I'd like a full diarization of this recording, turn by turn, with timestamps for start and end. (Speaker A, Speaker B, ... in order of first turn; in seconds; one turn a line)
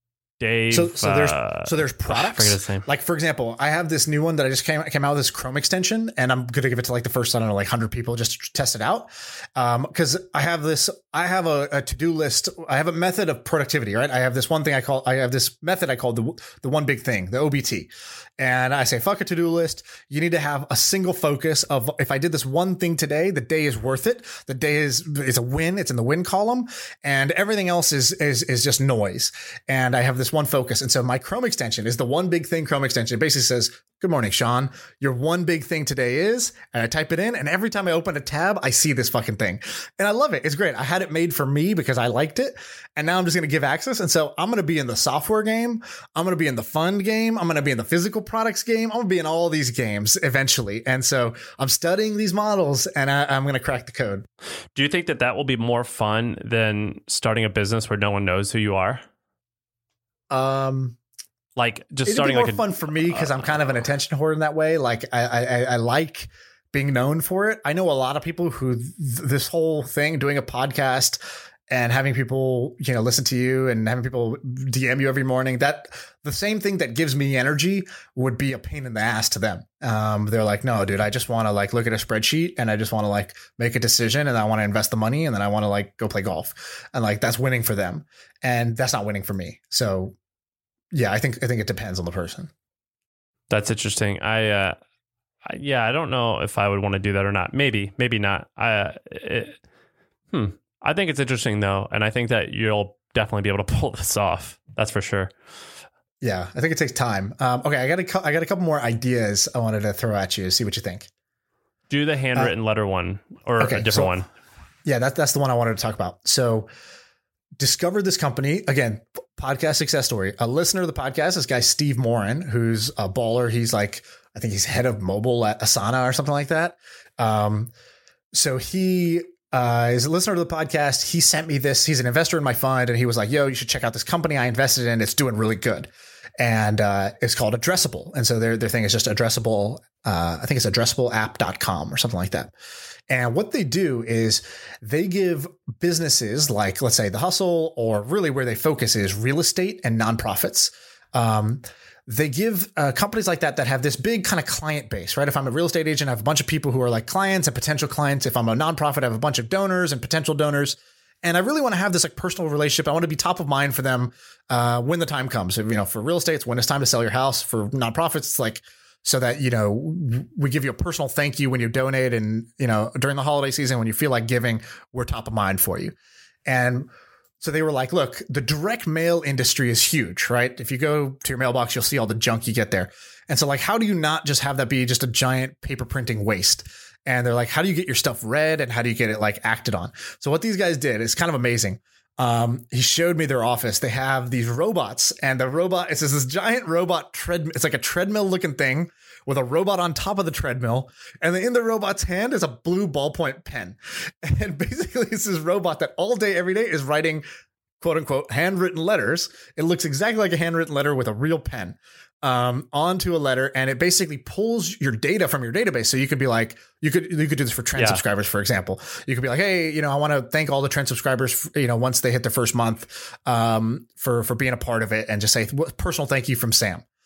Speaker A: 0.4-2.9
Speaker B: 0.7-54.2
Speaker A: 54.7-59.0
Speaker B: 60.3-61.0
Speaker A: 61.5-63.4
Speaker B: 62.0-71.2
Speaker B: 71.7-90.1
Speaker B: 90.9-92.5
Speaker A: 93.5-94.7
Speaker A: 95.4-99.6
Speaker A: 100.3-105.3
Speaker B: 106.2-111.1
Speaker A: 111.9-114.2
Speaker B: 113.6-114.1
Speaker B: 114.8-116.7
Speaker B: 117.6-127.7
Speaker B: 128.3-142.5
Speaker B: 143.1-175.9
Speaker B: 176.5-176.9
Speaker B: 177.4-207.2
Speaker B: 207.8-226.8
Speaker A: 217.7-218.0